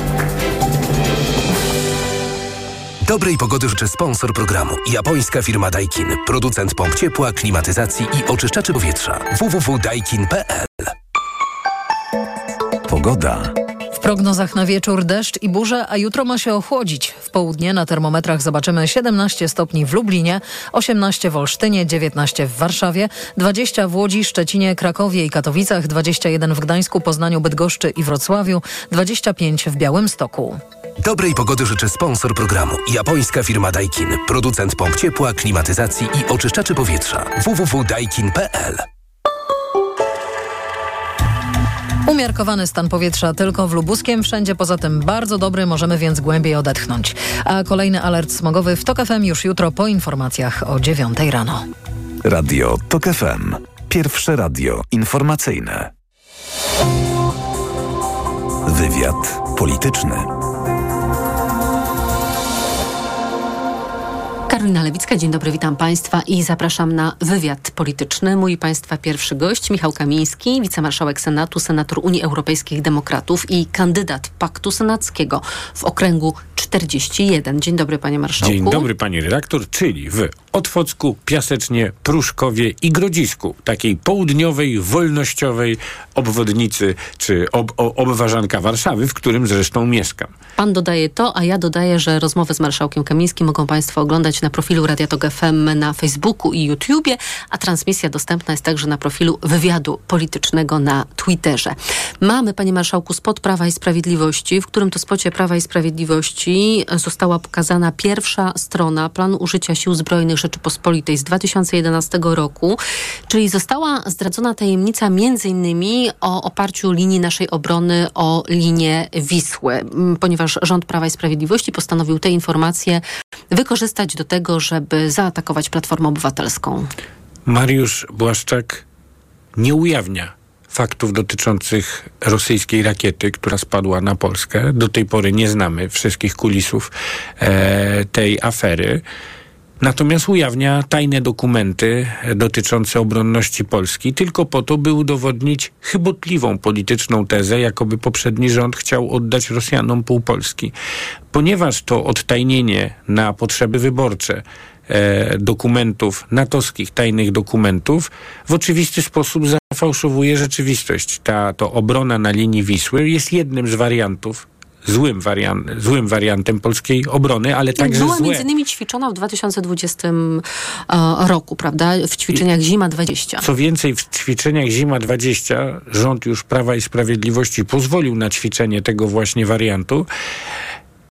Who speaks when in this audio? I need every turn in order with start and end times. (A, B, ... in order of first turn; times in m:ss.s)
0:03.0-0:10.9 A
0:12.9-0:13.5 B
0:13.9-0:30.6 C
0:31.0-0:38.8 A
0:42.0-0:51.6 C
0:52.2-0:55.9 B
0:58.6-1:00.3 B
1:04.5-1:18.9 D
1:18.4-1:30.3 E
1:30.6-2:06.9 D
2:07.5-2:08.8 E
2:09.6-2:19.0 E
2:19.8-2:30.7 E
2:31.3-2:48.4 E
2:47.8-2:53.4 D
2:53.4-3:00.1 E